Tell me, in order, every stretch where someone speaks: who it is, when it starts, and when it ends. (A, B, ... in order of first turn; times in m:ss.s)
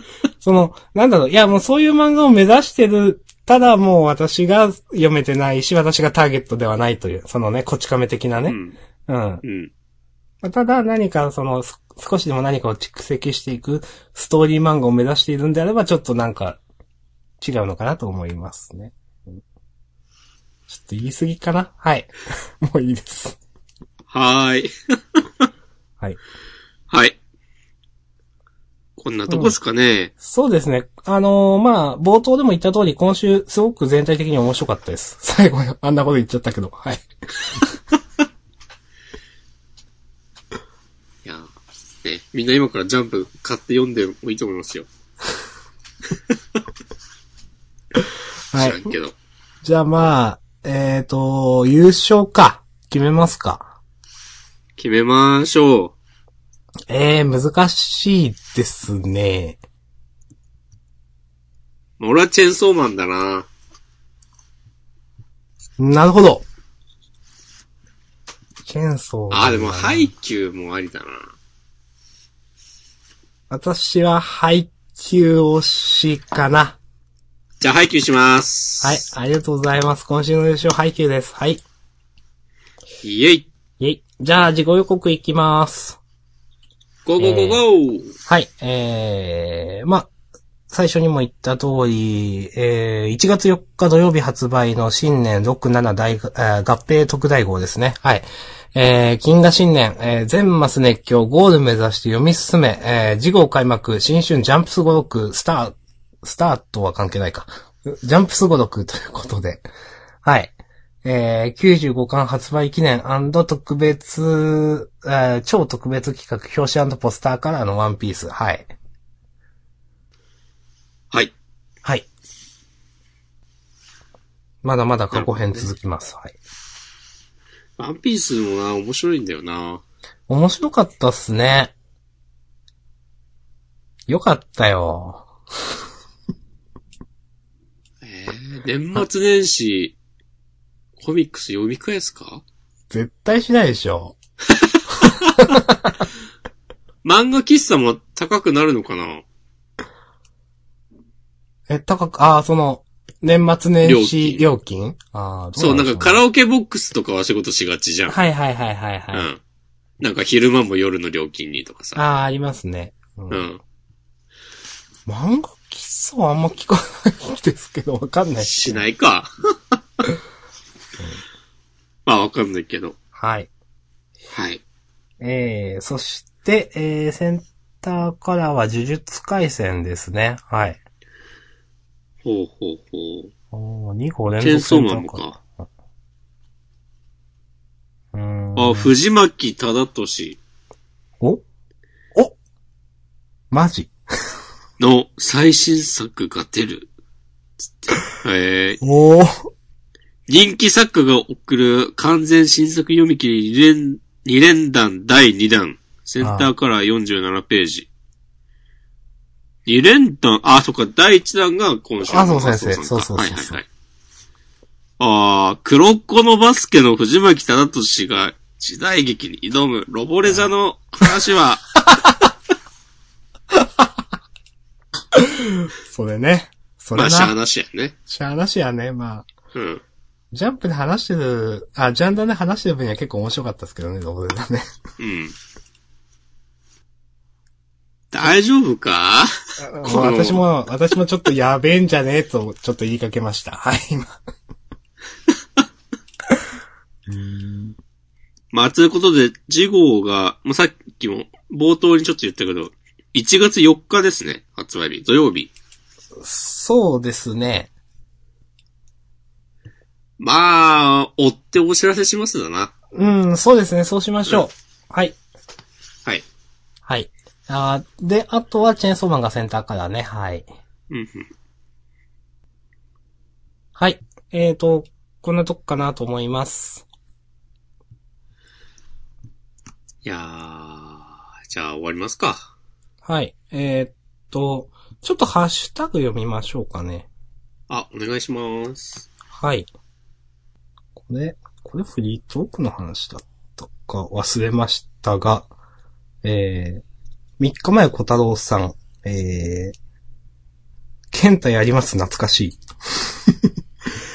0:00.4-0:09.4 A
0:08.5-0:08.8 B
0:09.4-0:09.7 B
0:10.4-0:16.6 A
0:17.4-0:19.4 A
0:20.7-0:23.4 A
0:24.1-0:24.7 B
0:26.9-0:27.2 B
0:29.0-0:30.1 B
0:29.3-0:29.5 A
0:30.2-0:37.8 A
0:42.0-0:44.9 B
0:48.5-0:48.9 A
0:48.6-0:49.2 B
0:49.6-0:53.8 A
0:54.8-0:56.0 B
0:56.9-0:59.6 A
1:02.0-1:03.5 B
1:05.8-1:06.5 A
1:08.6-1:10.1 A
1:09.3-1:11.3 B
1:13.5-1:16.8 A
1:17.6-1:19.0 B
1:18.8-1:21.6 A
1:23.0-1:23.5 B
1:23.8-1:26.0 A
1:27.1-1:28.1 B
1:27.2-1:27.6 A
1:28.3-1:30.1 A
1:30.7-1:49.6 A
1:50.2-1:58.7 A
2:04.6-2:06.4 A
2:05.1-2:05.7 B
2:07.8-2:09.8 B
2:10.3-2:11.7 A
2:14.1-2:15.3 A
2:18.0-2:20.0 B
2:21.0-2:22.4 B
2:22.9-2:24.2 A
2:24.6-2:25.3 B
2:25.0-2:26.0 A
2:27.0-2:29.2 B
2:31.7-2:36.2 A
2:33.8-2:34.4 B
2:35.6-2:38.2 B
2:38.1-2:39.3 A
2:39.1-2:39.4 B
2:40.0-2:42.0 B
2:42.0-2:43.5 A
2:43.3-2:43.6 B
2:45.1-2:48.8 A
2:48.4-2:49.3 B
2:52.1-2:53.0 B
2:53.2-2:53.5 A
2:54.3-2:54.6 B
2:55.2-3:00.8 A
3:02.2-3:03.3 B
3:03.5-3:05.4 A
3:04.4-3:05.4 B
3:08.1-3:08.9 A
3:08.6-3:10.4 B
3:13.5-3:13.9 A
3:14.8-3:16.9 B
3:17.8-3:18.8 B
3:18.8-3:19.5 A
3:20.3-3:27.9 B
3:26.2-3:26.5 A
3:29.7-3:33.7 B
3:32.1-3:33.6 A
3:35.0-3:41.6 B
3:43.5-3:43.8 A
3:45.1-3:47.3 A
3:46.9-3:48.0 B
3:48.1-3:49.3 A
3:49.5-3:49.8 B
3:50.3-3:54.7 A
3:55.0-3:55.4 B
3:58.1-3:59.3 B
3:59.6-4:04.2 A
3:59.8-4:00.4 B
4:07.1-4:07.8 A
4:08.5-4:15.5 B
4:16.2-4:17.7 A
4:20.2-4:22.7 B
4:22.9-4:25.2 A
4:26.8-4:30.5 A
4:30.9-4:31.3 B
4:33.8-4:36.9 A
4:40.0-4:42.5 B
4:43.0-4:47.1 A
4:47.7-4:49.1 B
4:49.3-4:49.7 A
4:51.0-4:55.5 A
4:56.2-4:56.8 A
4:57.4-4:59.8 A
5:01.1-5:03.5 A